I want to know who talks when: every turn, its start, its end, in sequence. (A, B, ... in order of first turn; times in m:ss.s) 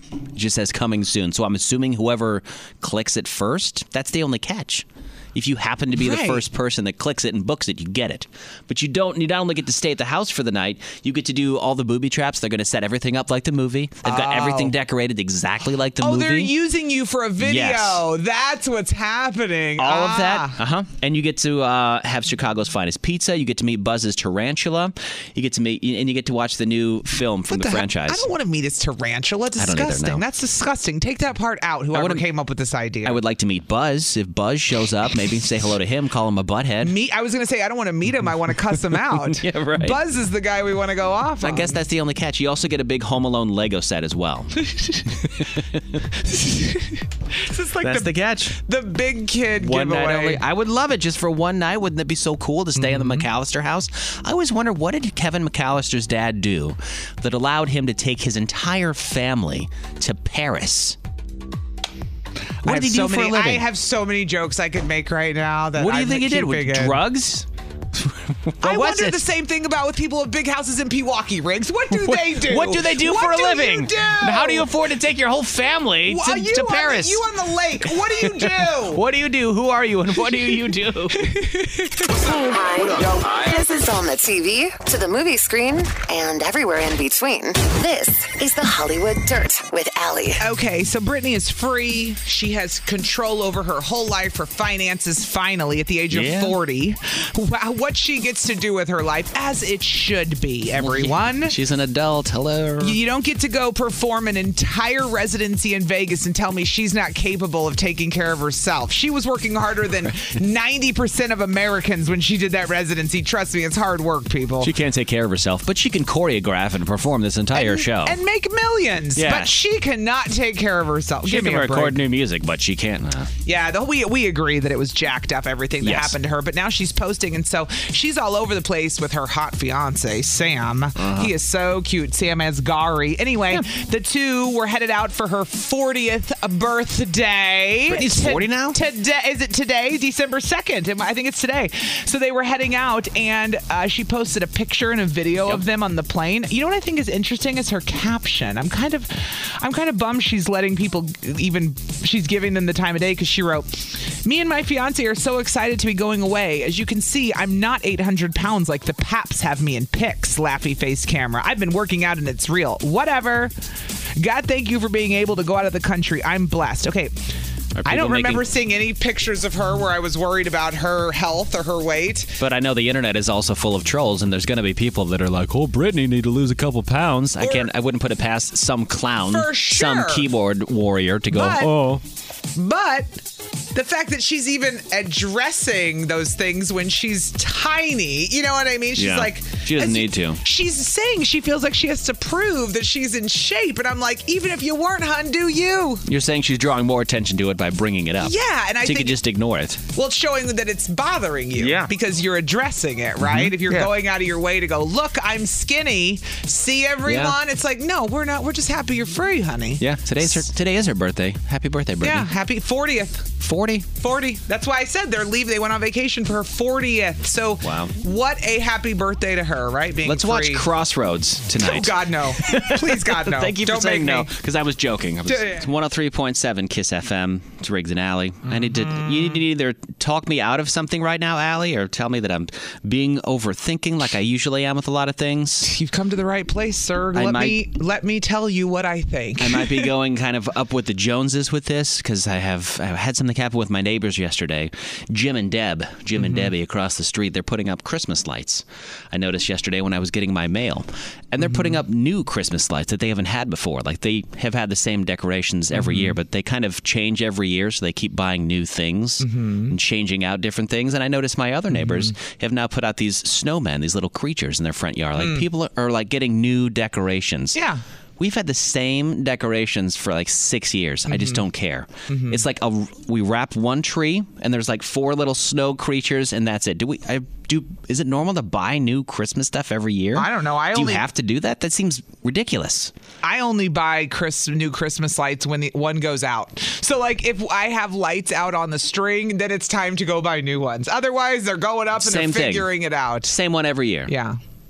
0:00.3-0:16.5 A
0:05.9-0:06.4 B
0:14.0-0:14.7 B
0:16.0-0:20.6 B
0:17.4-0:18.0 A
0:19.8-0:28.2 A
0:27.5-0:33.2 B
0:29.6-0:30.2 A
0:31.9-0:32.2 A
0:33.0-0:37.0 A
0:36.8-0:41.8 B
0:39.0-0:40.0 A
0:41.4-0:46.0 A
0:44.7-0:45.0 B
0:46.2-0:50.4 B
0:47.8-0:48.6 A
0:49.6-1:01.0 A
0:52.8-0:53.3 B
1:02.6-1:07.0 B
1:02.6-1:03.6 A
1:05.8-1:09.2 A
1:08.6-1:14.7 B
1:12.0-1:17.3 A
1:16.0-1:19.0 B
1:17.9-1:21.3 A
1:21.1-1:22.3 B
1:22.2-1:30.4 C
1:30.4-1:41.6 B
1:36.1-1:36.6 A
1:40.8-1:43.0 A
1:42.8-1:54.7 B
1:54.6-1:58.2 A
1:57.5-2:02.0 B
1:59.2-1:59.5 A
2:01.2-2:03.3 A
2:03.4-2:43.5 B
2:05.8-2:06.2 A
2:11.0-2:11.3 A
2:17.9-2:18.8 A
2:44.2-2:47.2 B
2:47.8-2:48.4 A
2:47.8-2:52.4 B
2:52.4-3:02.0 A
2:57.4-2:57.7 B
2:59.3-3:00.3 B
3:01.3-3:01.8 B
3:02.5-3:03.2 B
3:03.7-3:16.0 B
3:09.0-3:10.4 A
3:16.1-3:19.8 A
3:18.2-3:19.2 B
3:19.9-3:30.4 B
3:21.6-3:21.9 A
3:23.2-3:23.9 A
3:27.0-3:27.4 A
3:29.8-3:32.3 A
3:32.0-3:33.4 B
3:33.4-3:33.9 A
3:33.9-3:40.7 B
3:37.6-3:37.9 A
3:40.0-3:55.7 A
3:41.6-3:44.3 B
3:45.2-3:45.7 B
3:48.5-3:49.4 B
3:55.6-3:59.9 B
3:57.1-3:57.6 A
3:59.4-4:27.6 A
4:06.2-4:06.5 B
4:11.4-4:11.8 B
4:15.7-4:16.2 B
4:19.2-4:19.8 B
4:21.7-4:22.1 B
4:25.2-4:25.4 B
4:27.5-4:27.8 B
4:28.2-4:42.9 A
4:31.1-4:31.4 B
4:32.1-4:32.4 B
4:40.1-4:41.0 B
4:43.2-4:53.3 B
4:52.0-4:52.7 A
4:53.2-4:54.1 A
4:54.1-4:54.4 B